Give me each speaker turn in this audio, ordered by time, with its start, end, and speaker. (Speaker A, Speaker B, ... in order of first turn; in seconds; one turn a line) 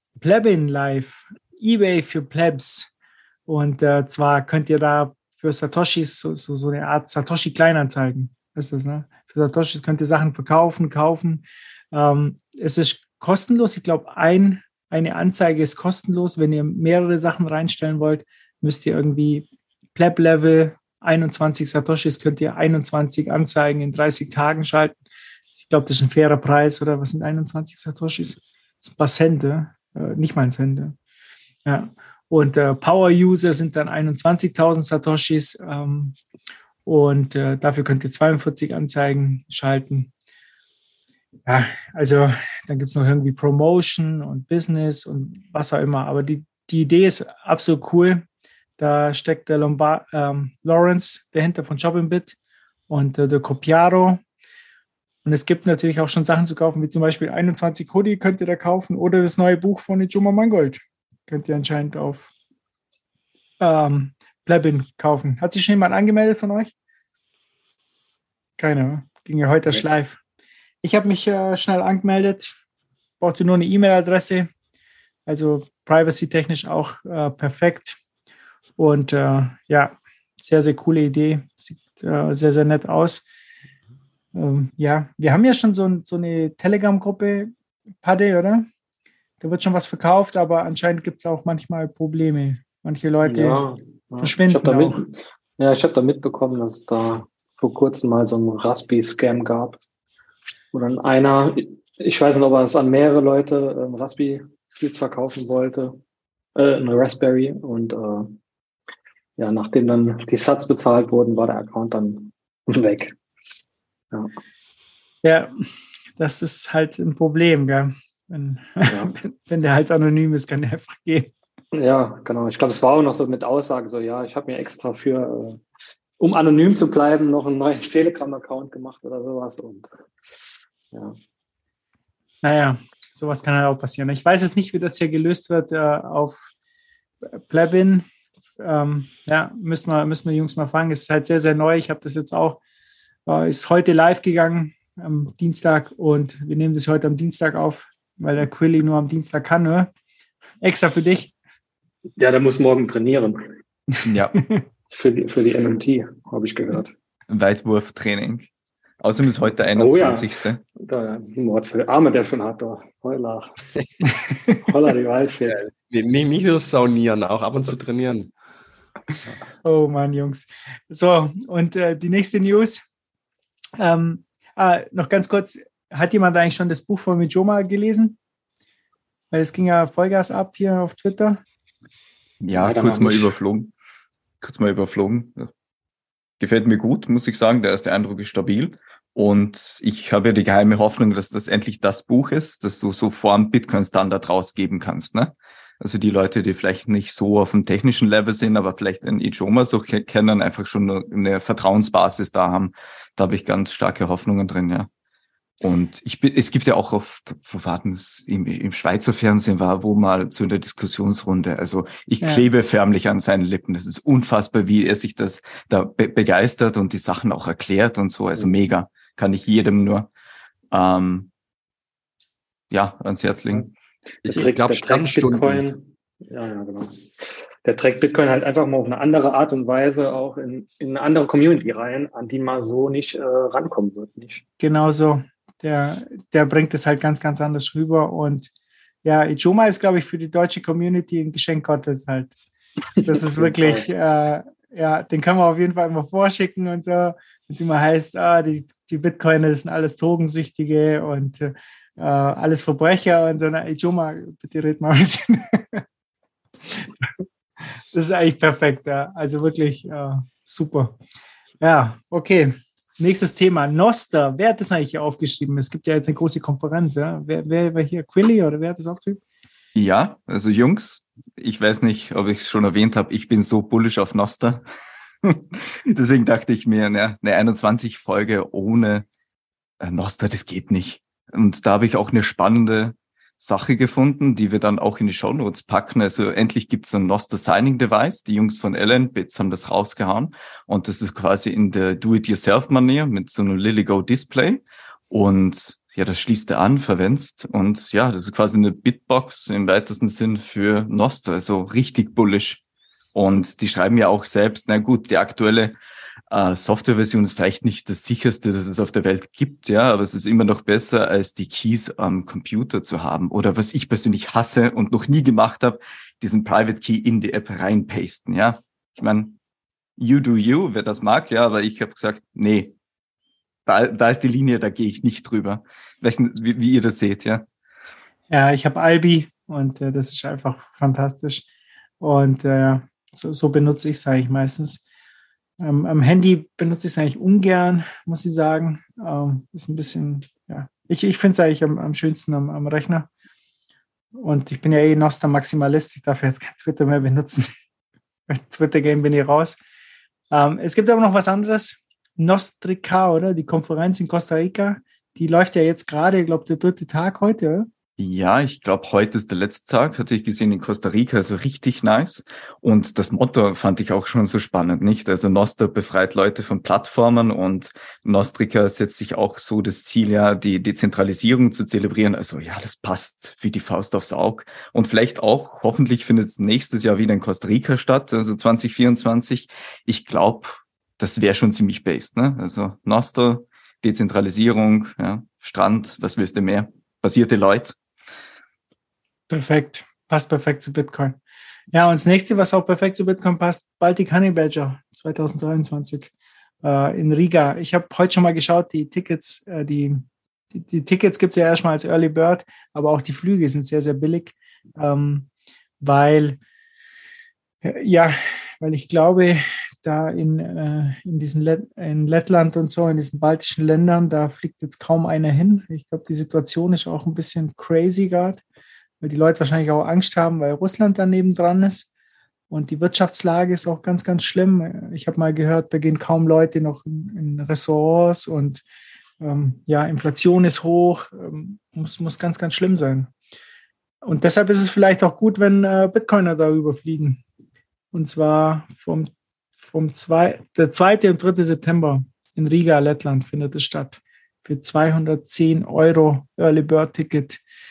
Speaker A: 0.2-2.9
Speaker A: 3.5-25.0
Speaker A: 25.6-30.9
Speaker A: 31.6-36.2
Speaker A: 36.9-40.1
Speaker A: 41.5-48.2
Speaker A: 48.8-52.4
Speaker A: 52.9-54.2
Speaker A: 55.2-62.3
Speaker A: 63.6-66.7
Speaker A: 68.6-70.2
Speaker A: 70.8-72.5
Speaker A: 73.2-74.5
Speaker A: 75.2-78.0
Speaker A: 78.8-83.2
Speaker A: 84.3-87.5
Speaker A: 88.0-88.7
Speaker A: 89.4-93.6
Speaker B: 93.2-99.8
Speaker A: 94.2-95.0
Speaker B: 100.7-106.0
Speaker B: 106.5-108.3
Speaker B: 109.4-113.2
Speaker A: 115.2-115.5
Speaker A: 116.2-121.3
Speaker B: 118.9-119.1
Speaker B: 121.7-125.6
Speaker B: 126.2-130.4
Speaker A: 132.4-136.5
Speaker A: 137.3-138.1
Speaker A: 138.6-142.6
Speaker A: 143.2-149.9
Speaker A: 150.6-151.3
Speaker B: 152.2-153.5
Speaker C: 154.0-154.4
Speaker B: 154.9-156.9
Speaker C: 157.3-158.5
Speaker C: 159.0-160.6
Speaker B: 159.7-163.6
Speaker B: 164.6-165.6
Speaker D: 165.5-168.3
Speaker A: 169.6-172.8
Speaker A: 173.8-178.2
Speaker A: 179.3-181.4
Speaker C: 182.4-183.7
Speaker B: 182.6-183.3
Speaker C: 184.4-185.5
Speaker C: 186.4-204.9
Speaker C: 205.6-220.1
Speaker C: 220.7-221.3
Speaker C: 222.7-223.7
Speaker D: 224.2-225.6
Speaker B: 224.2-234.4
Speaker A: 234.6-238.5
Speaker A: 239.0-242.3
Speaker B: 243.0-243.8
Speaker A: 243.0-255.8
Speaker A: 256.6-257.1
Speaker A: 257.9-261.0
Speaker A: 261.6-269.2
Speaker C: 269.7-274.6
Speaker C: 275.2-279.1
Speaker C: 279.8-302.6
Speaker C: 303.1-305.8
Speaker C: 306.3-319.4
Speaker C: 320.0-322.7
Speaker C: 323.6-327.4
Speaker A: 328.3-331.4
Speaker A: 332.0-334.8
Speaker A: 335.6-343.1
Speaker A: 344.2-347.5
Speaker A: 348.3-349.6
Speaker A: 350.3-357.7
Speaker C: 358.0-387.8
Speaker A: 389.3-391.2
Speaker A: 391.7-396.1
Speaker A: 396.6-405.3
Speaker A: 405.8-406.4
Speaker A: 407.6-418.4
Speaker A: 419.0-421.9
Speaker A: 422.5-428.6
Speaker A: 429.2-433.1
Speaker A: 434.0-437.2
Speaker A: 437.9-439.1
Speaker A: 439.6-447.4